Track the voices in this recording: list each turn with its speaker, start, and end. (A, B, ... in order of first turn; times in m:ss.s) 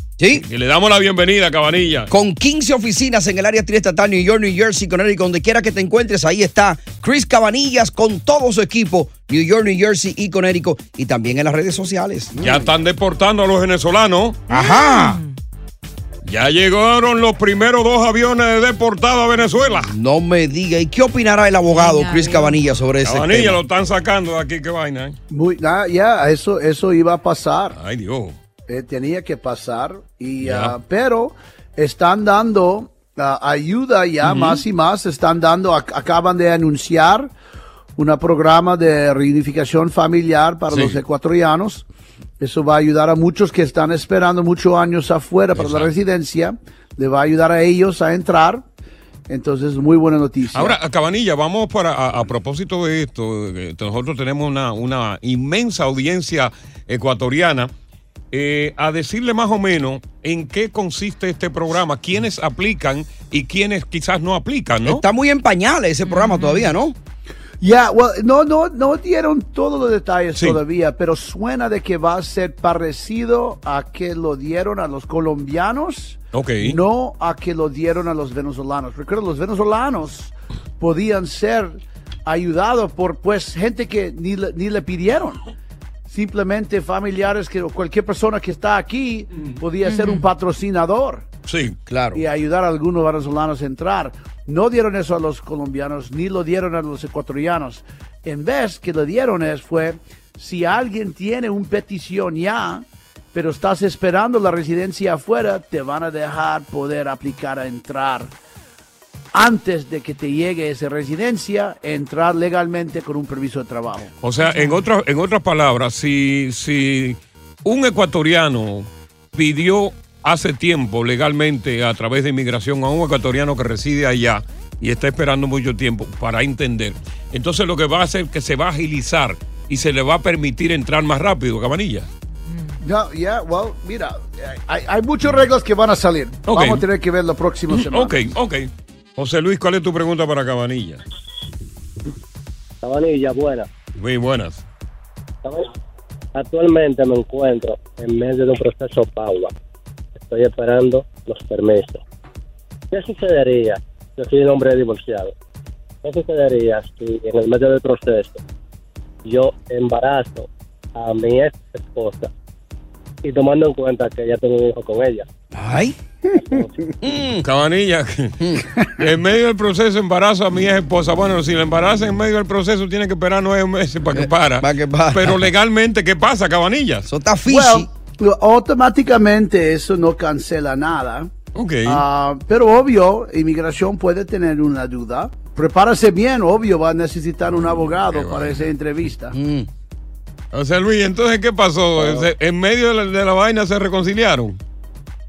0:00.2-0:00.4 A
0:00.3-0:02.1 B
0:02.1-0:12.7 A
0:12.4-0:14.4 B
0:14.5-0:15.2 A
0:14.5-0:15.4 C
0:16.2-0:19.9 B
0:19.8-0:23.6 A
0:21.7-0:22.6 C
0:23.0-0:25.2 B
0:25.3-0:27.8 D
0:27.7-0:28.4 B
0:28.7-0:37.3 D
0:30.4-0:30.8 B
0:34.2-0:34.6 B
0:38.0-0:41.8 D
0:40.7-0:41.0 B
0:42.4-0:48.6 D
0:45.5-0:45.9 B
0:49.3-0:50.8 D
0:50.5-0:57.7 B
0:58.3-1:05.0 B
1:04.8-1:07.0 A
1:06.0-1:06.7 C
1:07.6-1:25.4 D
1:10.4-1:10.6 B
1:16.3-1:16.8 B
1:26.1-1:31.3 D
1:29.8-1:30.3 C
1:31.5-1:31.8 B
1:31.9-1:32.2 A
1:32.1-1:48.3 D
1:49.3-1:54.1 D
1:54.2-2:12.1 B
1:54.4-1:54.9 C
2:12.4-2:12.8 C
2:12.8-2:18.2 D
2:16.5-2:16.8 B
2:17.7-2:21.0 B
2:22.8-2:23.7 E
2:24.0-2:24.6 B
2:26.3-2:29.5 E
2:30.2-2:32.0 E
2:32.9-2:35.3 E
2:36.0-2:38.4 E
2:39.2-2:42.3 E
2:43.2-2:45.3 E
2:45.5-2:47.4 A
2:46.4-2:46.7 E
2:47.4-2:48.4 B
2:48.4-2:48.7 A
2:48.9-2:57.1 B
2:54.1-2:55.5 A
2:57.1-2:57.9 A
2:57.5-3:01.3 D
3:01.5-3:02.0 B
3:01.8-3:09.4 D
3:07.5-3:08.7 B
3:09.3-3:09.7 A
3:10.5-3:14.6 B